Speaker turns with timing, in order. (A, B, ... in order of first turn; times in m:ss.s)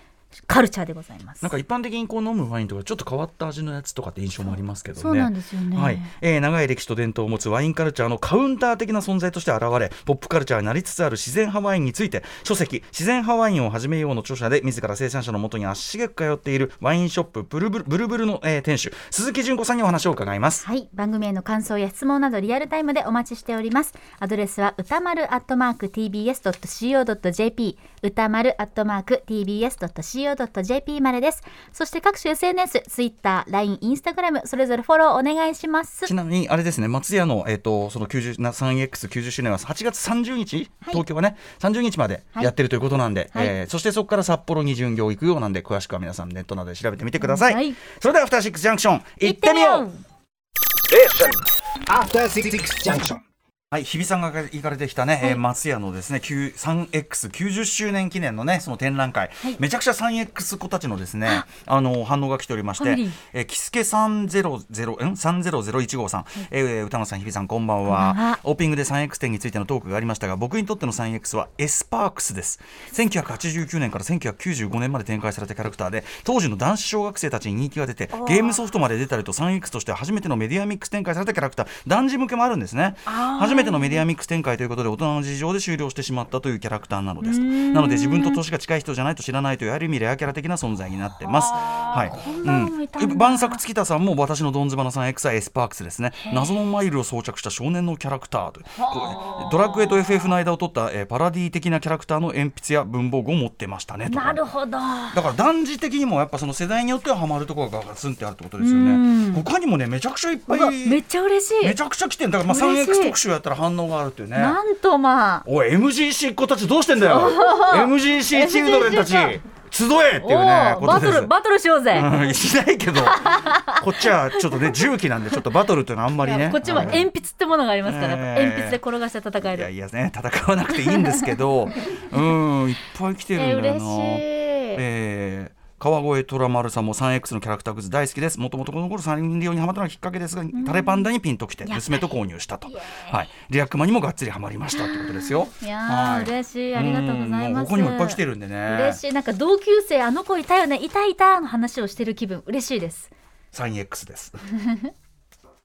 0:00.5-0:01.5 A
0:01.4-0:20.6 B
0:05.0-0:06.1 A
0:20.6-0:36.1 A
0:36.0-0:49.9 B
0:47.2-0:47.8 A
0:49.2-0:50.0 A
0:50.9-0:53.2 C
0:53.7-1:44.4 B
1:02.8-1:03.2 A
1:07.9-1:08.4 A
1:18.1-1:18.6 A
1:23.0-1:24.0 A
1:27.2-1:28.4 A
1:31.2-1:33.6 A
1:36.2-1:36.5 A
1:38.8-1:39.9 A
1:44.0-1:45.2 A
1:45.1-1:51.0 B
1:48.6-1:49.4 A
1:50.5-1:51.8 A
1:51.6-1:54.6 B
1:52.5-1:53.2 A
1:54.3-1:55.4 A
1:55.4-2:01.3 B
1:57.0-1:59.4 A
2:00.2-2:02.1 A
2:01.9-2:07.1 B
2:03.0-2:04.8 A
2:06.2-2:09.7 A
2:07.8-2:08.8 B
2:09.5-2:29.0 B
2:10.8-2:11.2 A
2:13.4-2:14.8 A
2:20.5-2:21.1 A
2:21.6-2:22.1 A
2:22.6-2:23.2 A
2:24.8-2:33.1 A
2:33.5-2:34.4 B
2:34.5-2:34.9 A